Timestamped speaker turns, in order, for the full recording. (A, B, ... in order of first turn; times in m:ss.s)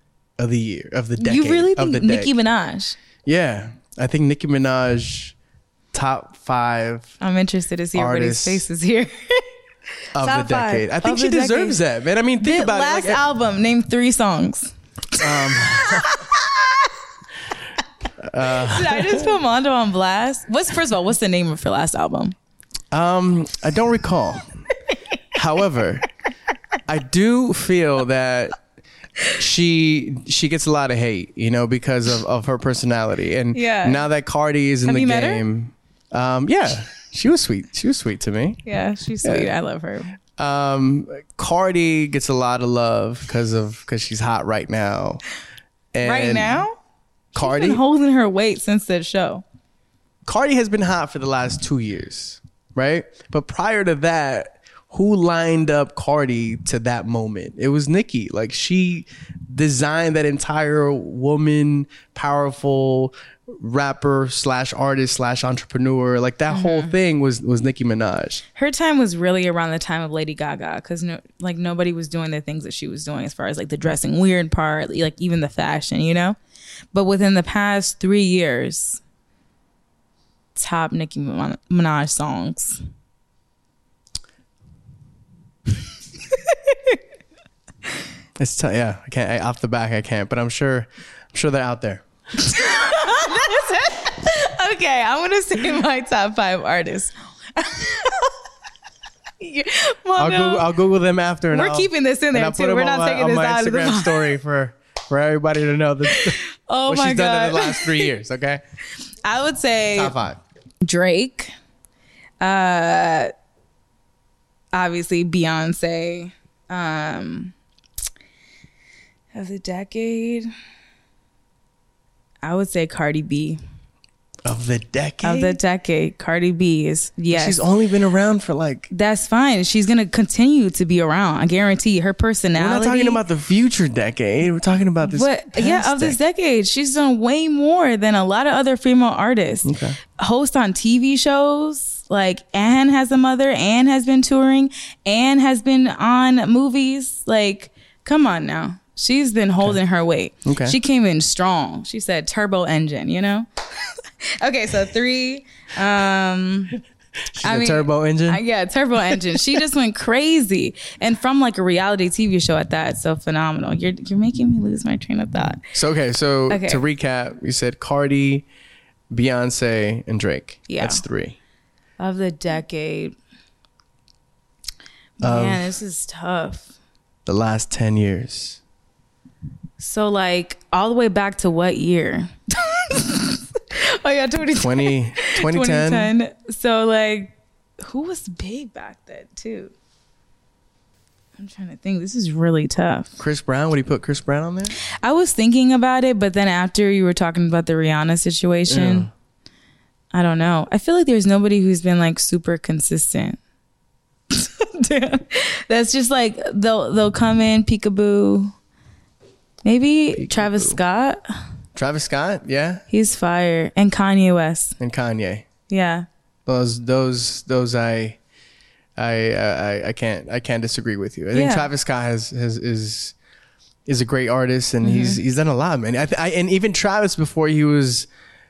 0:00.4-0:02.3 A
0:01.2-0:03.0 B
0:03.2-0:05.4 A
0:05.9-0:07.1 A
0:07.2-0:09.4 B
0:08.0-0:08.6 A
0:10.2-0:13.2 A
0:10.2-0:11.8 B
0:12.4-0:16.9 B
0:15.2-0:16.2 A
0:18.2-0:19.3 A
0:18.4-0:22.4 B
0:22.9-0:24.6 A
0:25.3-0:26.1 A
0:26.9-0:28.6 A
0:29.3-0:38.6 A
0:33.5-0:34.0 B
0:34.8-0:35.4 B
0:38.7-0:40.2 B
0:39.2-0:39.5 A
0:40.4-0:45.2 A
0:45.9-0:46.6 A
0:46.0-0:46.8 B
0:47.4-0:47.8 A
0:47.4-0:49.4 B
0:50.2-1:08.4 A
1:06.5-1:06.9 B
1:08.6-1:16.4 B
1:16.9-1:19.0 B
1:20.6-1:22.8 B
1:26.3-1:27.0 B
1:28.4-1:32.0 A
1:32.4-1:38.3 B
1:39.4-1:40.7 B
1:40.2-1:48.6 A
1:41.5-1:44.3 B
1:46.1-1:48.1 B
1:49.2-1:50.2 B
1:50.0-1:50.4 A
1:50.8-1:51.5 B
1:52.4-1:53.3 B
1:54.7-1:57.6 B
1:59.3-2:00.5 B
2:02.4-2:03.6 B
2:04.4-2:05.6 A
2:05.2-2:07.6 B
2:07.3-2:08.9 A
2:08.9-2:13.2 B
2:12.6-2:16.2 A
2:15.0-2:36.8 B
2:19.6-2:20.0 A
2:30.4-2:30.8 A
2:37.3-2:38.4 A
2:37.4-2:45.6 B
2:45.7-2:48.5 A
2:46.5-2:46.8 B
2:49.1-2:51.4 A
2:50.7-2:51.0 B
2:52.0-2:53.2 B
2:55.2-2:56.7 B
2:55.2-2:55.7 A
2:57.3-2:58.6 A
2:59.8-3:09.7 B
3:04.6-3:06.1 A
3:11.4-3:13.1 B
3:13.2-3:14.8 A
3:14.8-3:19.1 B
3:18.7-3:19.1 A
3:20.1-3:23.4 B
3:24.3-3:28.5 B
3:29.6-3:31.2 B
3:30.2-3:30.8 A
3:31.8-3:32.8 A
3:32.9-3:34.8 B
3:34.8-3:35.5 A
3:35.7-3:36.1 B
3:36.5-3:38.2 A
3:39.0-3:43.2 A
3:41.3-3:41.7 B
3:43.9-3:48.1 A
3:44.8-3:45.2 B